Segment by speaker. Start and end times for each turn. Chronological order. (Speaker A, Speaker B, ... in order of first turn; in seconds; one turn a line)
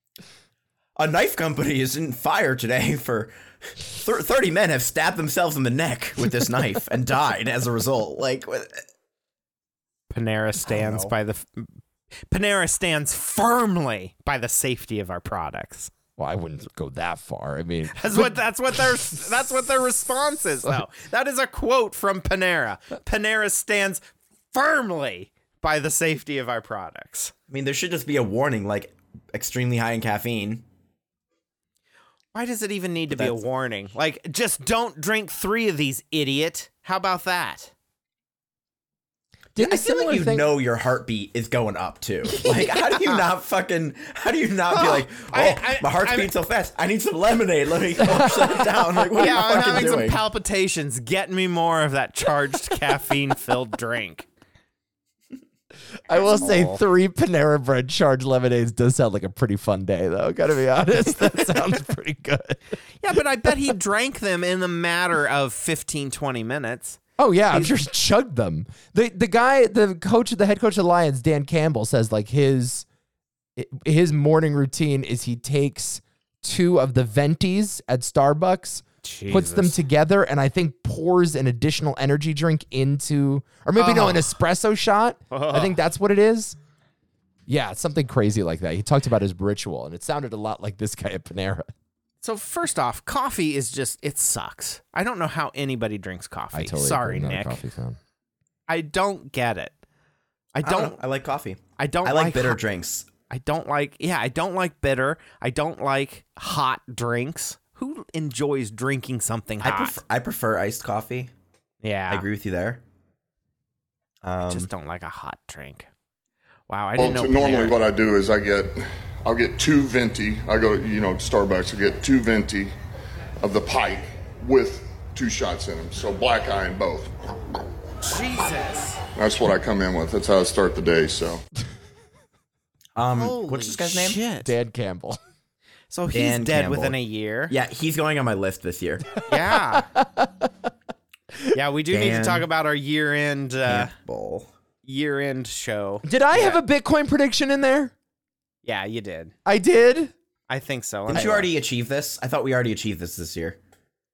Speaker A: 0.9-8.8
Speaker B: 10.1-11.7
Speaker A: 10.6-11.1
Speaker B: 12.3-15.9
Speaker C: 16.2-18.4
Speaker B: 17.9-27.3
Speaker A: 27.5-30.6
Speaker B: 32.3-37.7
Speaker A: 33.1-33.4
Speaker C: 39.5-40.5
Speaker A: 39.6-50.2
Speaker B: 44.7-46.3
Speaker C: 48.0-48.6
Speaker B: 49.1-54.3
Speaker C: 56.1-62.6
Speaker B: 56.1-56.8
Speaker B: 63.0-67.0
Speaker C: 67.2-72.8
Speaker C: 73.6-86.6
Speaker B: 79.0-79.8
Speaker B: 83.8-84.4
Speaker B: 85.3-85.8
Speaker C: 87.5-91.7
Speaker B: 92.2-97.6
Speaker C: 96.5-98.0
Speaker B: 98.7-99.7
Speaker B: 100.5-101.0
Speaker A: 100.6-103.1
Speaker B: 101.8-102.6
Speaker B: 103.3-110.0
Speaker A: 109.6-111.3
Speaker B: 111.8-112.2
Speaker A: 112.1-112.8
Speaker A: 114.2-114.7
Speaker B: 114.5-115.9
Speaker B: 116.7-117.8
Speaker D: 117.0-122.7
Speaker D: 123.4-127.1
Speaker B: 128.0-129.0
Speaker D: 129.2-131.4
Speaker A: 132.9-134.2
Speaker B: 133.2-134.5
Speaker C: 134.4-135.2
Speaker B: 135.9-137.5
Speaker A: 136.1-137.0
Speaker A: 137.5-139.2
Speaker B: 139.3-139.9
Speaker C: 139.5-140.5
Speaker B: 141.5-143.9
Speaker A: 141.9-142.5
Speaker A: 143.6-144.5
Speaker B: 144.8-146.6
Speaker C: 146.0-147.9
Speaker B: 148.6-149.3
Speaker C: 149.4-150.1
Speaker B: 150.5-151.4
Speaker A: 151.1-153.6
Speaker C: 151.1-151.5